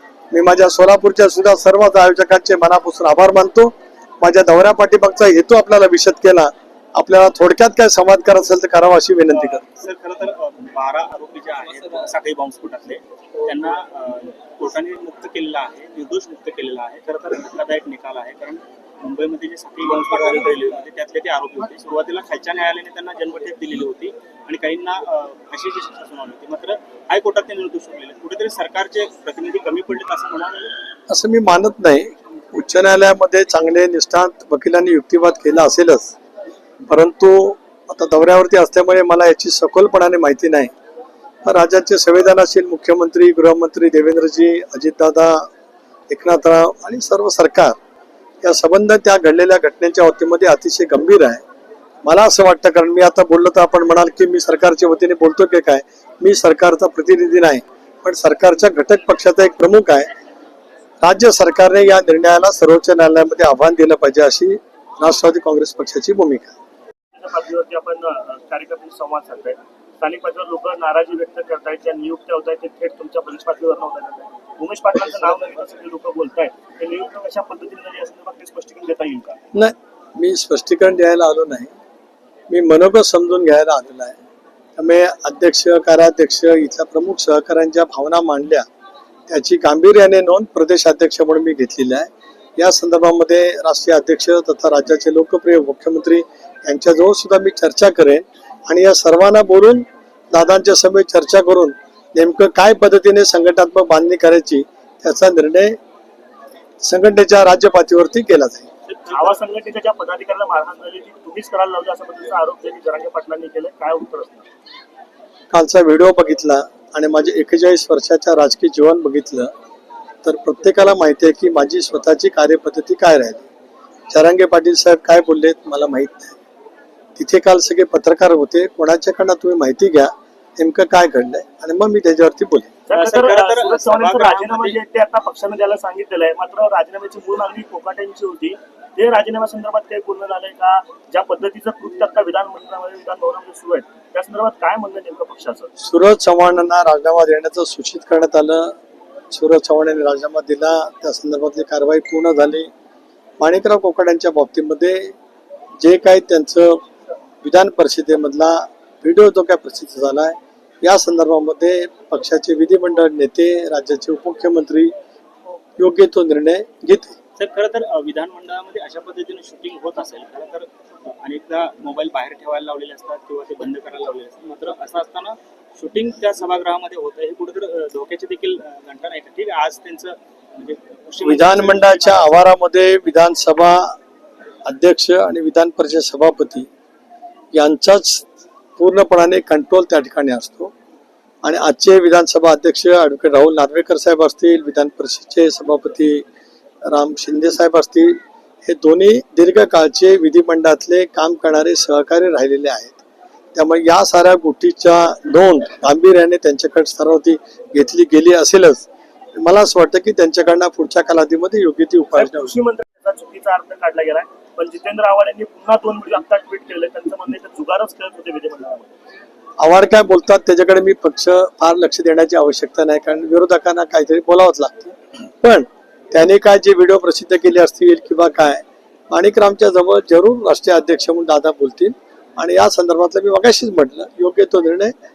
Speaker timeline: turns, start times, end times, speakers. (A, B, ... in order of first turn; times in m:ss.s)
0:00.3-0:09.6 A
0:09.3-0:30.7 B
0:31.1-0:36.2 A
0:36.8-0:40.7 A
0:41.4-0:45.5 A
0:46.1-0:47.8 A
0:48.4-0:51.4 A
0:52.0-1:00.1 A
1:01.0-1:06.5 A
1:07.2-1:19.4 C
1:19.5-1:21.7 A
1:22.5-1:24.2 A
1:24.8-1:28.7 A
1:29.3-1:45.8 A
1:46.8-1:48.7 A
1:49.0-1:54.5 C
1:49.1-1:49.4 B
1:55.5-1:59.5 A
2:00.2-2:03.5 A
2:04.1-2:06.4 A
2:07.2-2:12.7 A
2:12.9-2:25.7 C
2:12.9-2:14.8 B
2:25.8-2:28.8 A
2:29.3-2:32.7 A
2:33.4-2:35.1 A
2:35.8-2:36.8 A
2:37.4-2:44.9 A
2:45.8-2:47.2 A
2:47.4-3:02.4 B
3:01.2-3:04.0 A
3:04.7-3:06.7 A
3:07.5-3:08.2 A
3:08.8-3:10.7 A
3:11.4-3:16.2 A
3:16.9-3:23.0 A
3:23.5-3:32.5 A
3:32.2-3:38.9 C
3:39.6-3:54.9 A